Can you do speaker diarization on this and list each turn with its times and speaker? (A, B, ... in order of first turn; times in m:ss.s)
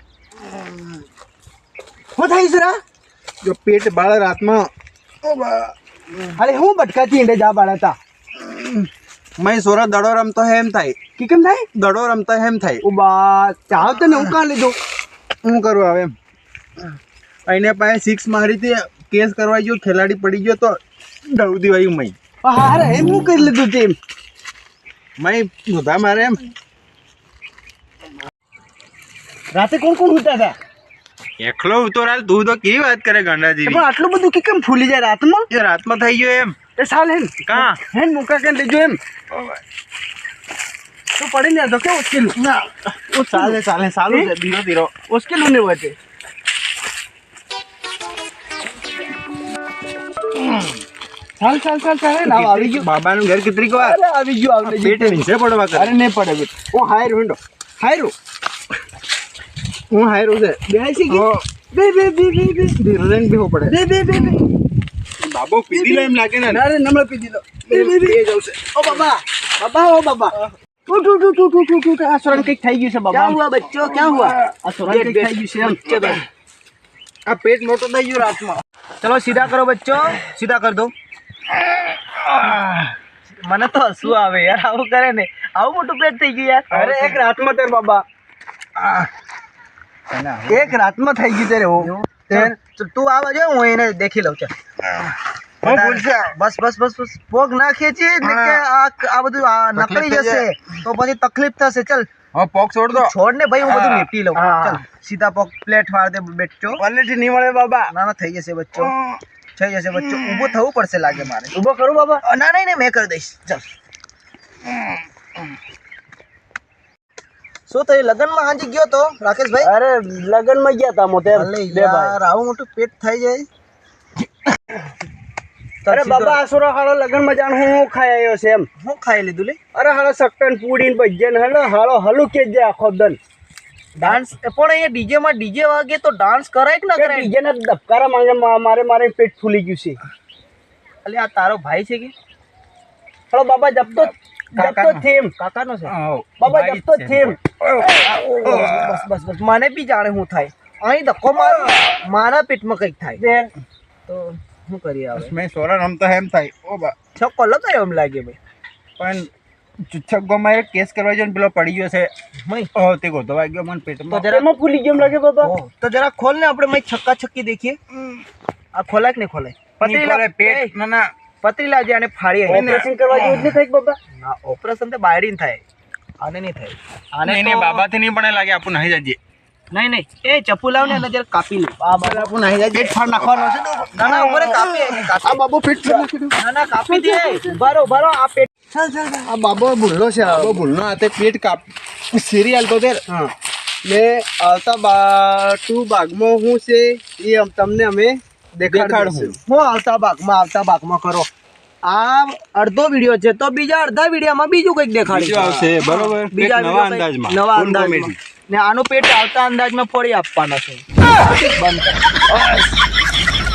0:00.5-0:00.8 A
0:02.2-0:02.8 B
0:03.4-0:04.7 A
0:05.2-0:05.7 A
0:06.4-0:08.0 B
0:08.4-0:11.0 A
0:11.2-0:11.7 B
0:11.7-0:12.8 A
0:12.8-0:14.8 B
0:15.4-0:16.1 A
0:17.5-0:22.2 A
0:22.4-0:24.0 B
0:25.2-0:26.5 A
0:29.5-0:30.6 B
0:31.4-0:33.8 A
0:33.6-0:35.5 B
0:35.5-0:36.6 A
0:36.8-0:39.0 B
0:37.4-0:37.8 A
0:41.2-0:42.4 B
0:43.1-0:44.9 A
0:43.2-0:43.6 B
0:45.1-0:46.0 B
0:51.4-0:52.9 B
0:52.2-0:54.0 A
0:52.3-0:52.8 C
0:53.8-0:55.2 B
0:54.6-0:55.9 A
0:55.7-0:58.1 B
0:59.9-1:02.8 B
1:01.1-1:01.4 A
1:02.8-1:03.8 A
1:03.7-1:04.5 B
1:05.2-1:06.6 A
1:05.7-1:10.3 B
1:07.7-1:08.2 A
1:10.9-1:13.4 B
1:13.1-1:16.2 C
1:14.4-1:16.1 B
1:17.3-1:18.6 A
1:19.0-1:20.9 C
1:22.3-1:22.7 A
1:23.3-1:27.2 C
1:26.7-1:28.0 B
1:28.8-1:29.0 A
1:30.1-1:30.8 A
1:30.5-1:32.5 B
1:31.8-1:34.5 C
1:35.6-1:36.3 A
1:35.6-1:42.1 C
1:38.2-1:38.6 A
1:39.8-1:40.5 A
1:42.3-1:43.1 A
1:42.9-1:46.8 C
1:43.6-1:44.1 A
1:44.4-1:44.8 B
1:46.9-1:47.6 A
1:47.0-1:47.9 B
1:47.9-1:49.0 C
1:48.8-1:49.2 A
1:49.6-1:51.5 C
1:51.5-1:52.2 B
1:52.2-1:53.6 C
1:57.7-1:59.7 C
1:59.6-2:02.2 B
2:01.3-2:03.5 C
2:05.8-2:06.4 C
2:05.9-2:08.7 B
2:08.8-2:09.6 C
2:09.7-2:13.2 B
2:14.0-2:14.2 B
2:14.0-2:17.3 C
2:17.0-2:20.0 B
2:21.0-2:22.1 C
2:23.3-2:25.3 B
2:24.5-2:25.0 A
2:25.4-2:25.9 C
2:25.9-2:29.0 A
2:26.4-2:27.4 B
2:27.9-2:33.2 C
2:33.2-2:33.5 B
2:34.1-2:35.3 C
2:35.2-2:36.9 A
2:37.2-2:38.4 C
2:39.0-2:39.3 A
2:39.9-2:42.1 A
2:42.4-2:42.7 C
2:42.8-2:44.3 A
2:44.1-2:44.5 C
2:44.2-2:45.5 B
2:45.4-2:47.8 C
2:48.7-2:50.7 C
2:49.8-2:51.1 A
2:51.4-2:52.8 C
2:52.5-2:54.0 B
2:52.5-2:53.5 A
2:54.1-2:55.6 C
2:56.2-2:57.8 C
2:57.2-2:59.2 A
2:59.7-3:02.3 C
3:02.0-3:04.8 A
3:02.7-3:03.9 B
3:03.9-3:05.4 C
3:05.2-3:06.3 B
3:06.4-3:08.5 C
3:06.9-3:07.5 B
3:08.7-3:10.6 B
3:10.2-3:13.0 A
3:13.8-3:19.4 B
3:18.6-3:19.3 A
3:19.2-3:21.3 C
3:21.8-3:32.4 C
3:25.1-3:28.2 A